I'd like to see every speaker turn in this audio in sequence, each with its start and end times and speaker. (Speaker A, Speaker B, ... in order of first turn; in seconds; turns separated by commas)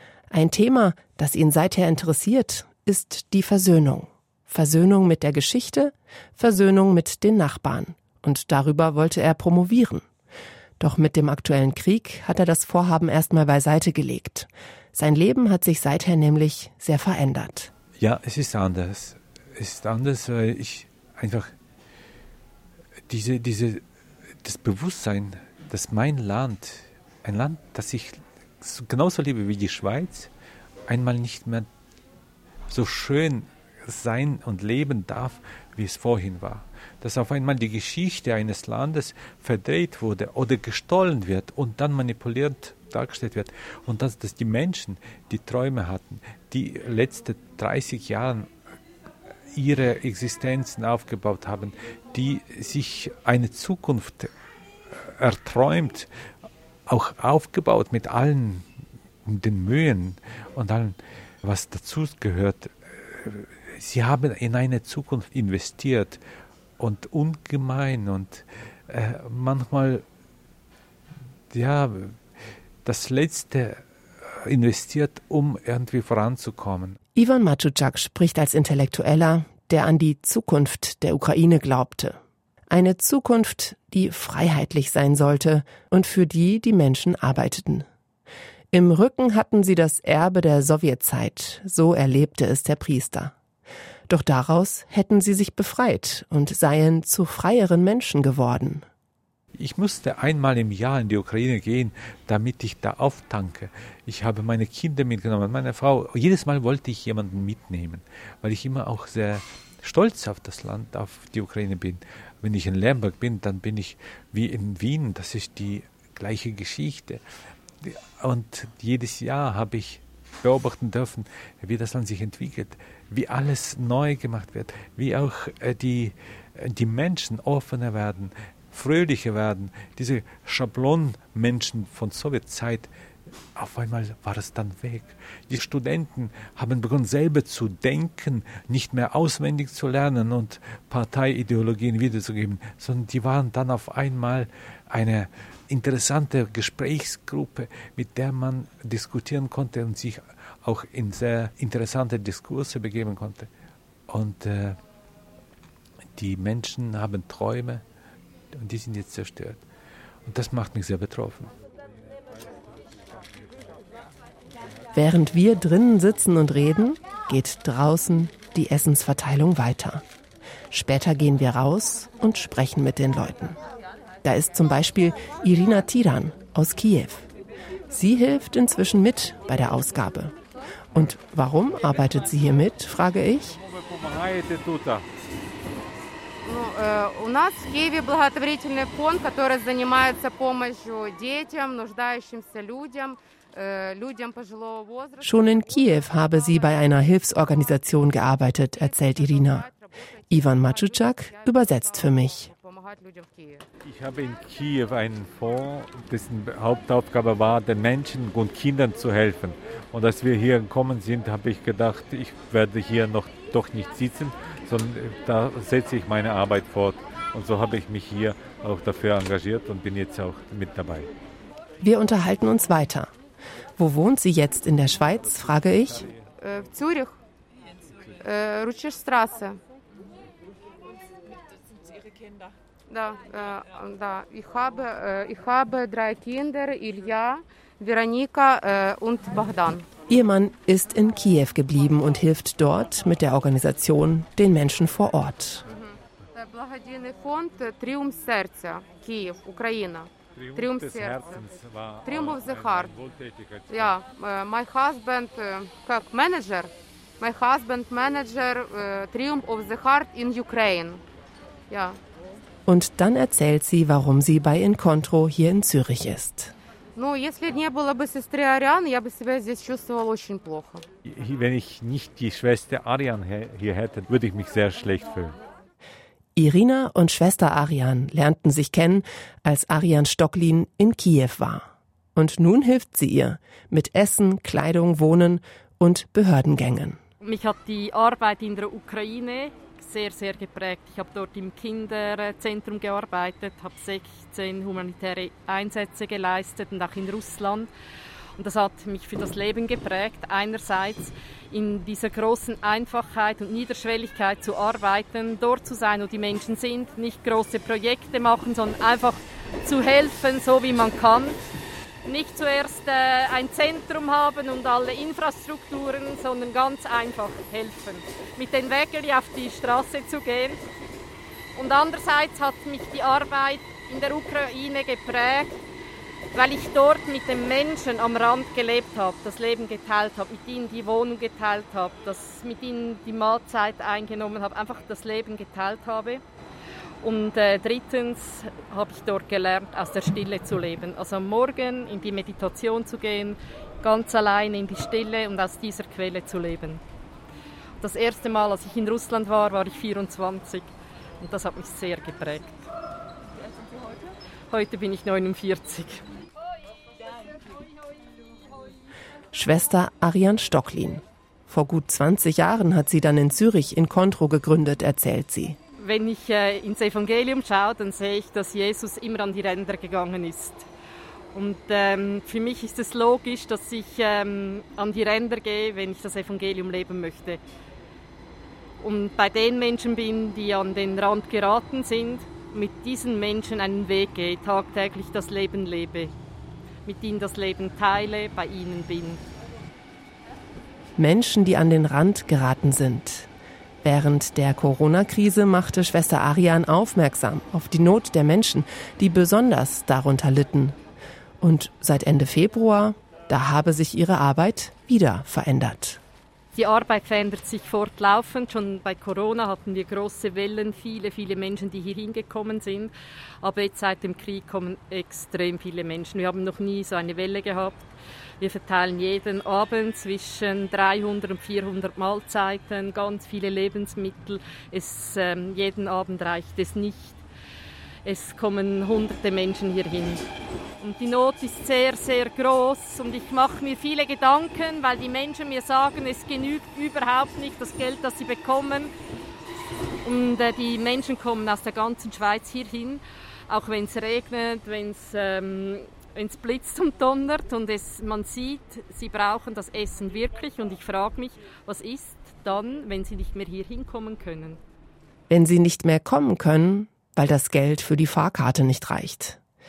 Speaker A: 0.3-10.1, Speaker A: 10.8-17.7, Speaker B: 18.0-21.5, Speaker B: 23.1-23.8, Speaker B: 24.4-30.3, Speaker B: 30.9-31.7, Speaker B: 32.7-48.5, Speaker B: 49.5-54.3, Speaker B: 54.9-56.1, Speaker B: 56.9-58.7, Speaker B: 59.2-66.2, Speaker B: 66.8-70.0, Speaker B: 71.5-72.2, Speaker B: 72.8-77.0, Speaker A: 77.2-87.9, Speaker A: 88.7-93.3, Speaker A: 94.1-98.8, Speaker B: 99.6-117.2, Speaker B: 117.8-132.9, Speaker B: 133.6-153.5, Speaker B: 154.1-154.8, Speaker B: 156.2-157.8, Speaker B: 158.5-159.6, Speaker B: 160.2-161.5, Speaker A: 164.9-170.1, Speaker A: 170.7-173.6, Speaker A: 174.2-177.3, Speaker A: 177.9-180.4, Speaker A: 180.9-183.6, Speaker B: 183.7-185.1, Speaker C: 186.4-203.7, Speaker A: 195.2-199.7, Speaker A: 200.3-202.5, Speaker B: 203.8-221.1, Speaker A: 221.8-223.1, Speaker A: 223.8-226.1, Speaker C: 226.4-227.2, Speaker C: 228.2-229.6, Speaker C: 232.9-239.9, Speaker A: 240.1-245.7, Speaker C: 245.7-251.4, Speaker B: 250.4-254.0, Speaker C: 252.1-252.9, Speaker C: 253.7-261.0, Speaker C: 261.7-262.0, Speaker A: 262.7-266.5, Speaker C: 267.0-270.9, Speaker B: 271.1-275.4, Speaker A: 276.4-287.0, Speaker D: 287.2-297.7, Speaker D: 298.4-311.4, Speaker D: 312.1-320.6, Speaker D: 321.6-325.6, Speaker D: 326.3-336.2, Speaker D: 337.0-346.8, Speaker D: 347.8-352.7, Speaker D: 354.5-356.0, Speaker A: 359.3-365.6, Speaker D: 365.8-370.7, Speaker D: 371.3-377.4, Speaker D: 378.8-386.1, Speaker D: 386.9-389.2, Speaker A: 391.0-393.3, Speaker A: 393.8-400.8, Speaker A: 401.4-406.0, Speaker D: 406.6-417.9, Speaker D: 418.4-427.2, Speaker D: 428.1-430.2, Speaker D: 430.8-438.9, Speaker D: 440.0-454.6, Speaker A: 455.3-459.4